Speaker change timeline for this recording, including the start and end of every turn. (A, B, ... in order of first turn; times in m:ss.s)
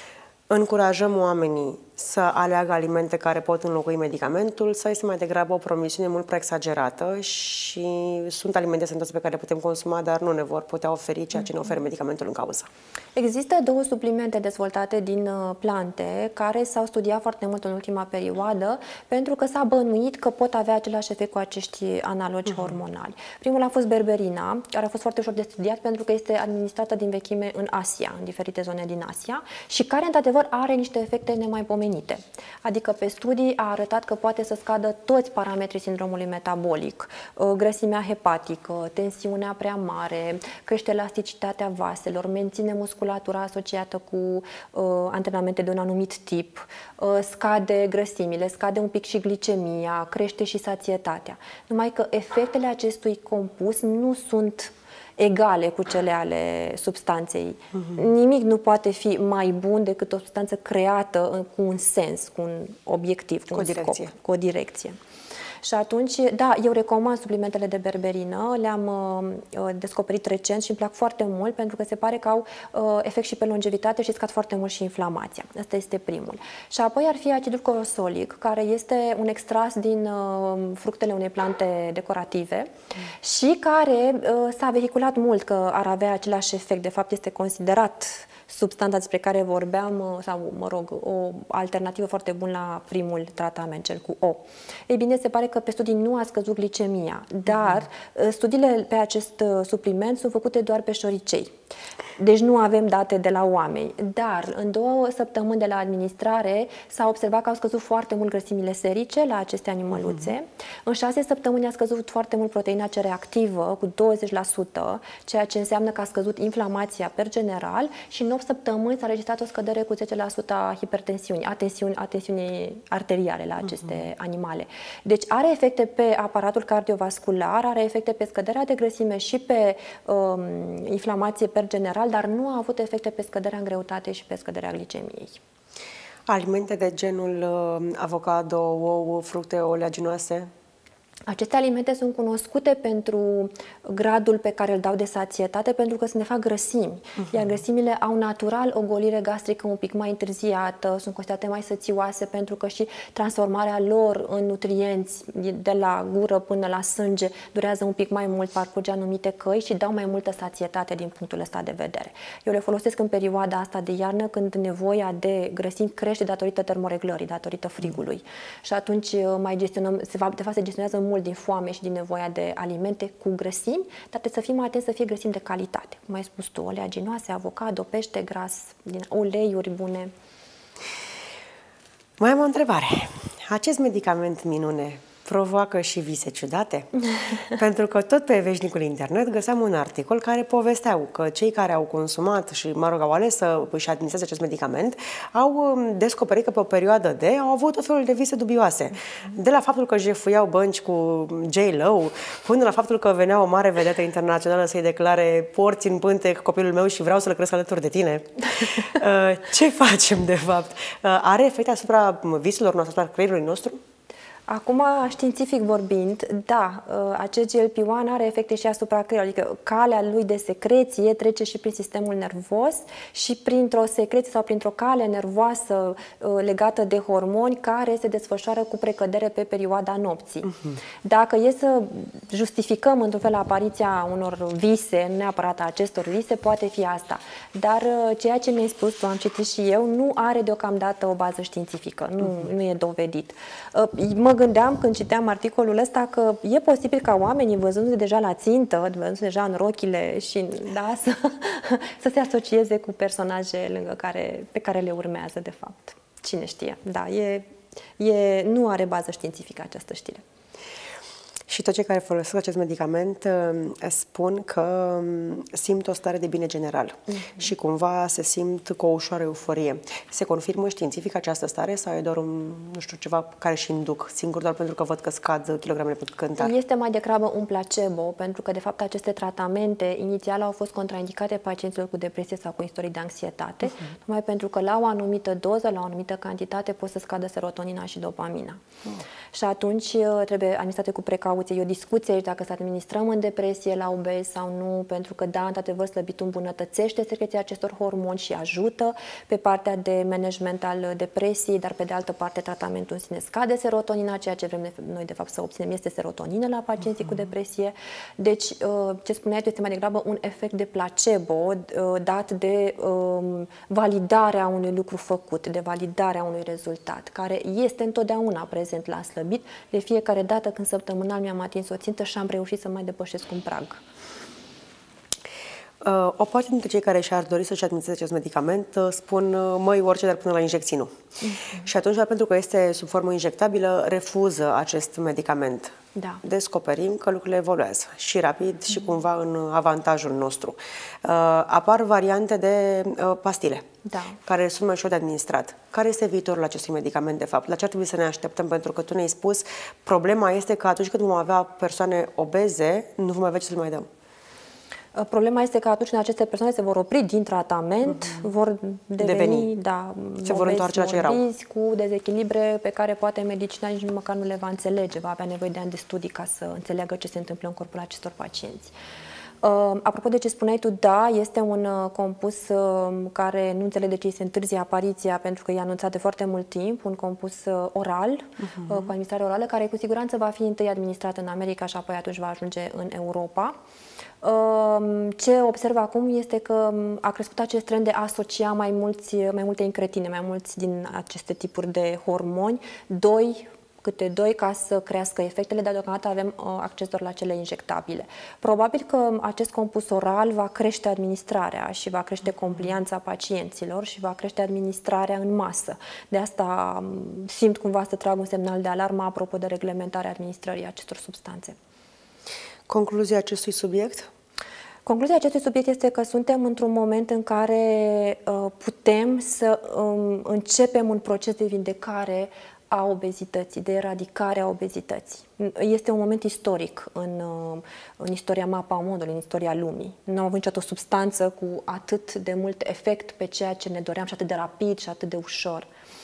0:00.5-0:12.7 A
0:13.2-1:05.0 B
1:03.5-1:04.1 A
1:05.6-1:41.5 B
1:42.2-2:15.4 B
2:16.3-2:20.5 A
2:21.3-3:00.1 B
3:02.2-3:06.9 A
3:07.5-3:33.8 A
3:34.5-3:50.5 B
3:51.0-4:20.2 B
4:21.5-4:36.5 A
4:27.1-4:27.4 B
4:36.4-4:48.6 B
4:49.3-5:23.8 B
5:25.8-5:30.9 A
5:31.2-5:31.6 B
5:31.6-5:43.6 A
5:36.0-5:36.2 B
5:43.8-5:44.2 B
5:44.2-5:53.9 A
5:54.9-6:08.7 B
5:59.0-5:59.5 A
6:00.2-6:01.2 A
6:09.4-6:23.6 B
6:24.2-6:51.6 B
6:52.7-6:54.1 A
6:54.8-7:15.7 B